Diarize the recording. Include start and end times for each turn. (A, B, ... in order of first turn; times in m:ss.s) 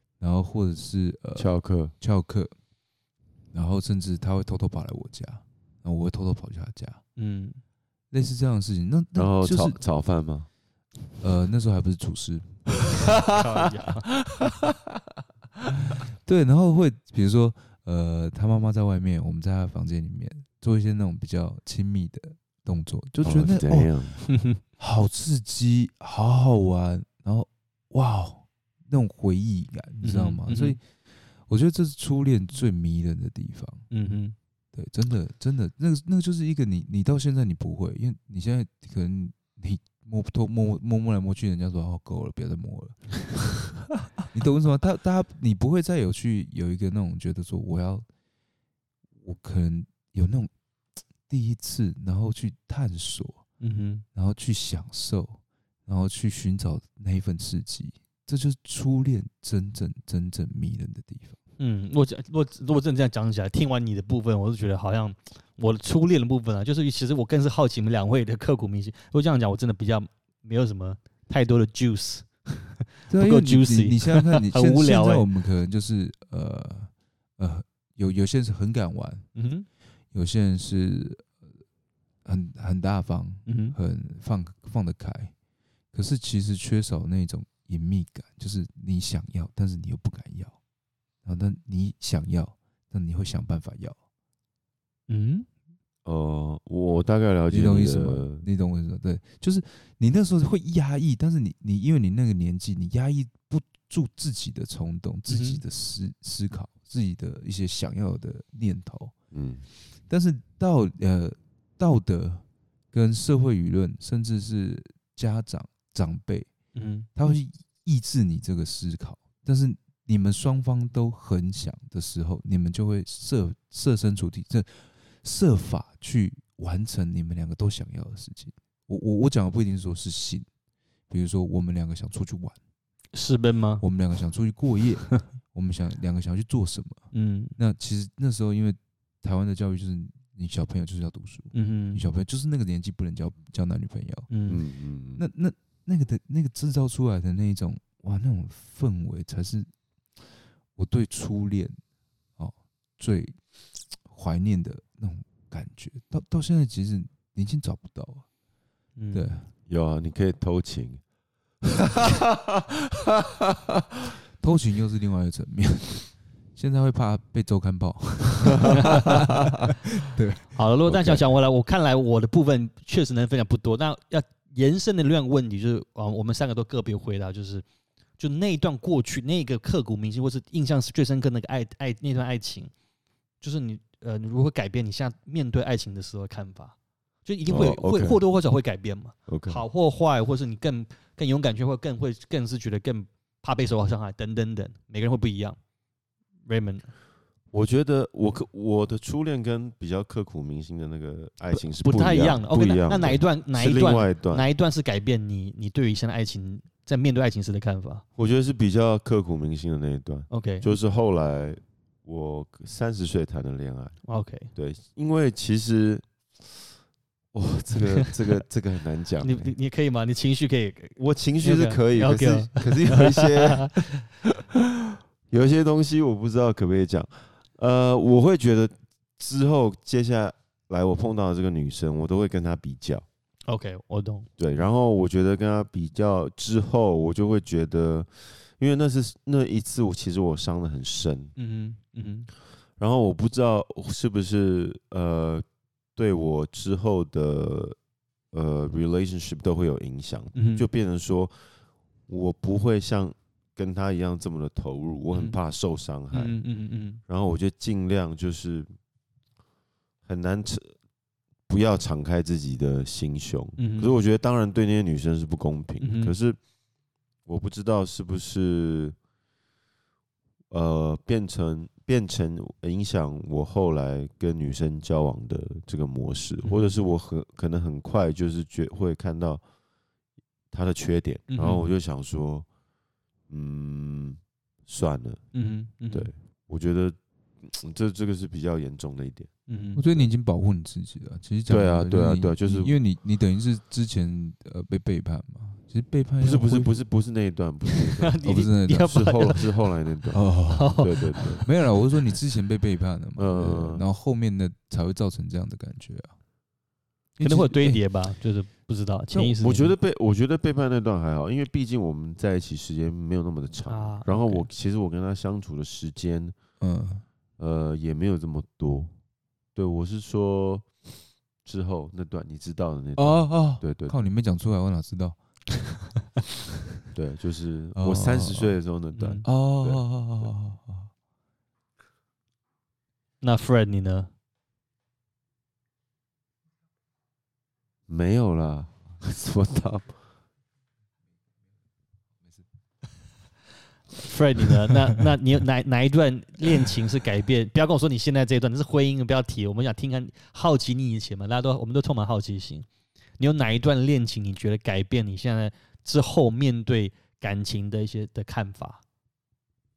0:00.2-0:02.5 A
0:01.3-0:01.9 B
0:03.5-0:07.0 A
0:07.2-0:07.6 C
0:08.1-0:09.8 A
0:09.1-0:10.5 B
0:11.2-0:13.0 A
0:13.0-0:14.1 C
0:14.3-0:14.7 B
0:15.8-0:23.9 A
0:23.2-0:24.2 B
0:24.2-0:24.6 C
0:24.8-0:30.8 A
0:30.0-0:30.8 C
0:31.4-0:33.8 A
0:33.9-0:34.4 C
0:34.7-0:43.2 A
0:44.3-0:48.0 A
0:49.2-0:50.5 A
0:51.3-0:53.4 A
0:53.6-0:54.0 C
0:54.1-1:01.4 A
1:01.6-1:15.2 C
1:13.1-1:19.3 A
1:19.3-1:19.6 C
1:20.1-1:21.3 A
1:22.2-1:25.3 A
1:23.4-1:23.8 C
1:25.9-1:30.6 A
1:31.2-1:34.0 A
1:35.1-1:35.5 C
1:36.0-1:38.4 B
1:37.5-1:49.1 A
1:45.3-1:45.6 C
1:49.3-1:49.6 B
1:50.1-1:56.5 A
1:56.7-1:57.1 C
1:57.2-2:10.5 A
2:11.1-2:12.6 A
2:13.1-2:13.8 C
2:13.8-2:24.3 A
2:17.1-2:17.5 C
2:21.5-2:22.0 C
2:24.3-2:24.6 C
2:24.5-2:25.2 B
2:25.2-2:29.7 A
2:30.8-2:31.8 A
2:32.4-2:33.4 A
2:34.0-2:38.2 A
2:39.0-2:39.3 C
2:39.1-2:39.5 A
2:39.7-2:41.0 B
2:41.8-2:43.8 B
2:44.4-2:50.6 A
2:48.7-2:49.1 C
2:50.5-2:57.6 C
2:50.9-2:51.2 B
2:58.2-3:02.7 C
3:03.4-3:15.6 C
3:07.4-3:08.2 B
3:09.3-3:09.6 B
3:16.4-3:16.9 C
3:17.5-3:24.4 B
3:21.5-3:28.0 C
3:28.2-3:34.0 B
3:30.3-3:30.7 C
3:34.0-3:34.5 C
3:34.5-3:36.1 B
3:37.3-3:39.5 B
3:37.8-3:38.1 C
3:39.2-3:43.8 C
3:41.0-3:43.7 B
3:44.2-3:53.0 B
3:53.5-3:54.3 C
3:54.4-4:01.3 B
4:01.4-4:02.3 C
4:02.8-4:05.4 B
4:06.0-4:07.8 B
4:08.3-4:11.3 B
4:10.3-4:10.6 C
4:12.1-4:16.4 B
4:16.1-4:17.0 C
4:17.1-4:18.7 B
4:20.0-4:20.7 B
4:21.5-4:26.4 B
4:23.6-4:23.9 C
4:25.8-4:26.1 C
4:27.2-4:29.0 B
4:30.5-4:39.4 B
4:36.4-4:36.8 C
4:40.5-4:42.5 B
4:41.3-4:41.7 C
4:43.3-4:45.2 B
4:45.3-4:46.1 C
4:45.9-4:49.3 B
4:49.5-4:49.8 C
4:49.7-4:56.7 A
4:51.5-4:52.8 B
4:56.2-4:58.2 B
4:58.0-4:59.4 C
4:58.2-4:59.2 A
4:58.8-5:00.2 B
5:00.1-5:06.1 A
5:00.5-5:01.4 C
5:00.8-5:01.4 B
5:03.2-5:03.8 B
5:07.2-5:07.8 A
5:07.2-5:09.7 C
5:09.1-5:16.4 B
5:13.7-5:14.1 C
5:14.1-5:14.5 A
5:16.6-5:17.0 A
5:17.4-5:18.9 B
5:19.5-5:20.7 B
5:21.4-5:24.0 B
5:23.0-5:25.2 A
5:26.9-5:29.8 B
5:27.8-5:28.6 A
5:28.9-5:29.2 C
5:29.2-5:30.9 A
5:33.2-5:34.1 C
5:37.9-5:39.9 B
5:43.9-5:52.7 C
5:53.2-5:58.8 C